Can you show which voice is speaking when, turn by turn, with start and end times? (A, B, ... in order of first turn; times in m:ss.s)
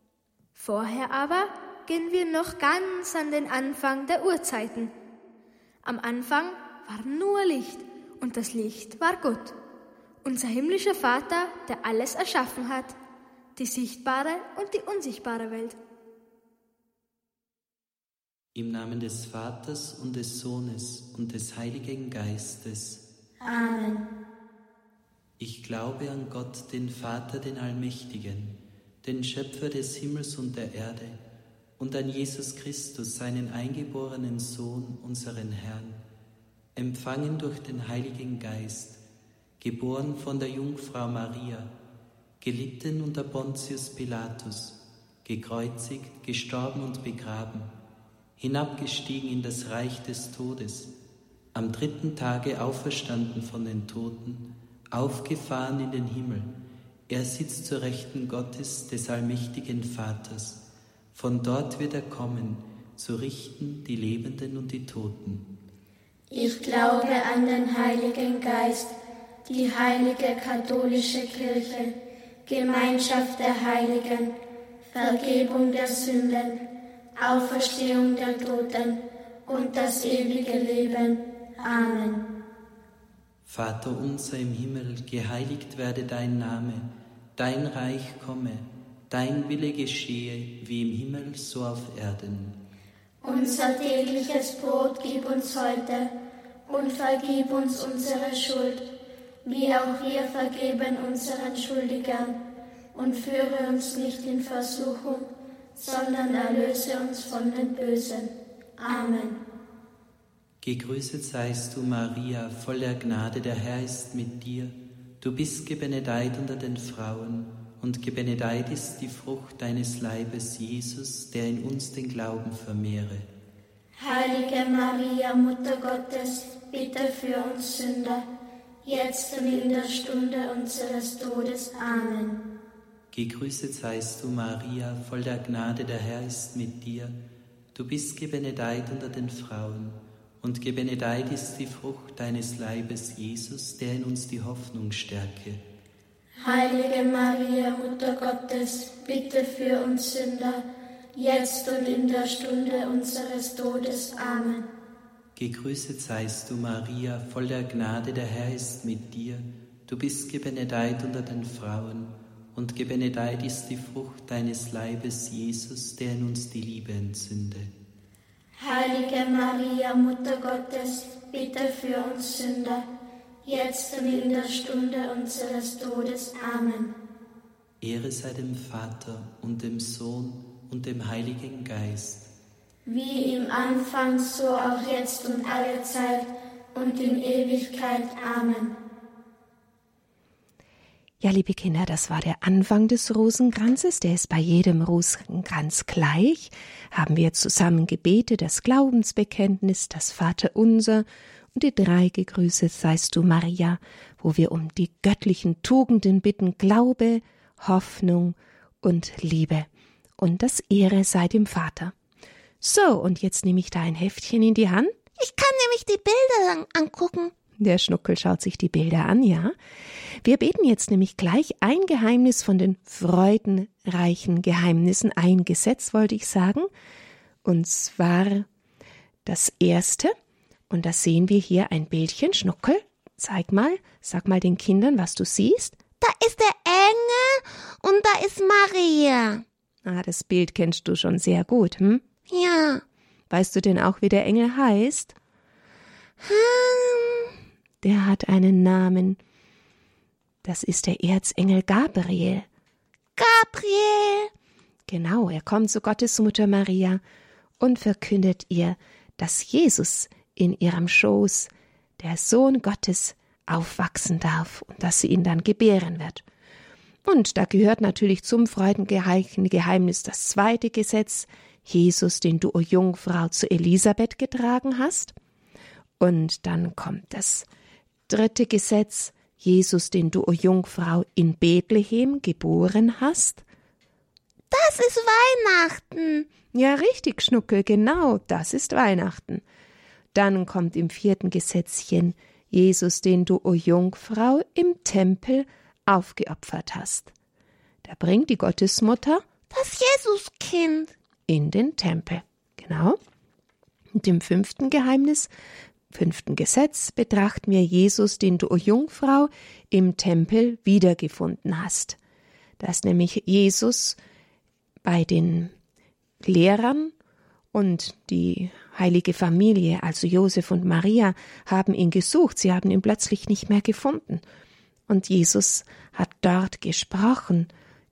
0:00.6-0:04.9 A
0:05.8-0:09.6 A
0:10.2-0:13.0 A
0:13.6-0:15.8 A
0:18.5-0:23.0 B
0:23.4-0:24.1 C
0:25.4-0:31.2 B
0:31.8-0:36.0 B
0:36.8-0:39.0 B
0:39.6-0:41.7 B
0:42.4-0:47.7 B
0:48.4-0:50.9 B
0:51.5-0:56.5 B
0:57.1-1:00.6 B
1:01.1-1:05.4 B
1:06.3-1:08.9 C
1:09.4-1:16.6 C
1:17.2-1:22.3 C
1:23.4-1:32.6 B
1:33.2-1:36.1 C
1:36.7-1:38.9 C
1:39.4-1:42.4 C
1:42.9-1:49.4 C
1:50.6-2:03.3 B
2:04.0-2:08.2 C
2:08.8-2:12.4 C
2:13.1-2:17.2 B
2:17.7-2:25.6 B
2:26.4-2:34.7 C
2:35.3-2:47.7 B
2:48.6-2:52.8 C
2:53.4-2:56.9 C
2:57.8-3:02.3 B
3:02.8-3:08.8 C
3:11.2-3:29.7 D
3:30.2-3:31.9 D
3:32.6-3:35.0 D
3:35.2-3:37.3 E
3:37.6-3:39.5 D
3:40.2-3:46.7 D
3:47.4-3:48.5 D
3:49.2-3:50.1 D
3:50.7-3:55.8 D
3:56.0-3:59.4 E
3:59.8-4:02.1 D
4:02.3-4:02.8 E
4:03.3-4:05.1 D
4:06.2-4:07.3 E
4:07.8-4:09.2 D
4:10.4-4:12.4 D
4:13.2-4:14.3 E
4:14.9-4:17.0 D
4:17.6-4:26.2 D
4:27.0-4:35.1 D
4:36.0-4:37.4 D
4:38.1-4:43.4 D
4:44.5-4:46.3 E
4:46.5-4:49.4 D
4:50.1-4:57.1 D
4:57.8-4:59.2 D
4:59.5-5:00.9 E
5:01.3-5:03.0 D
5:04.0-5:05.3 D
5:05.9-5:12.0 D
5:12.6-5:14.0 D
5:14.8-5:15.5 D
5:16.2-5:16.9 D
5:17.5-5:24.2 D
5:24.9-5:27.5 D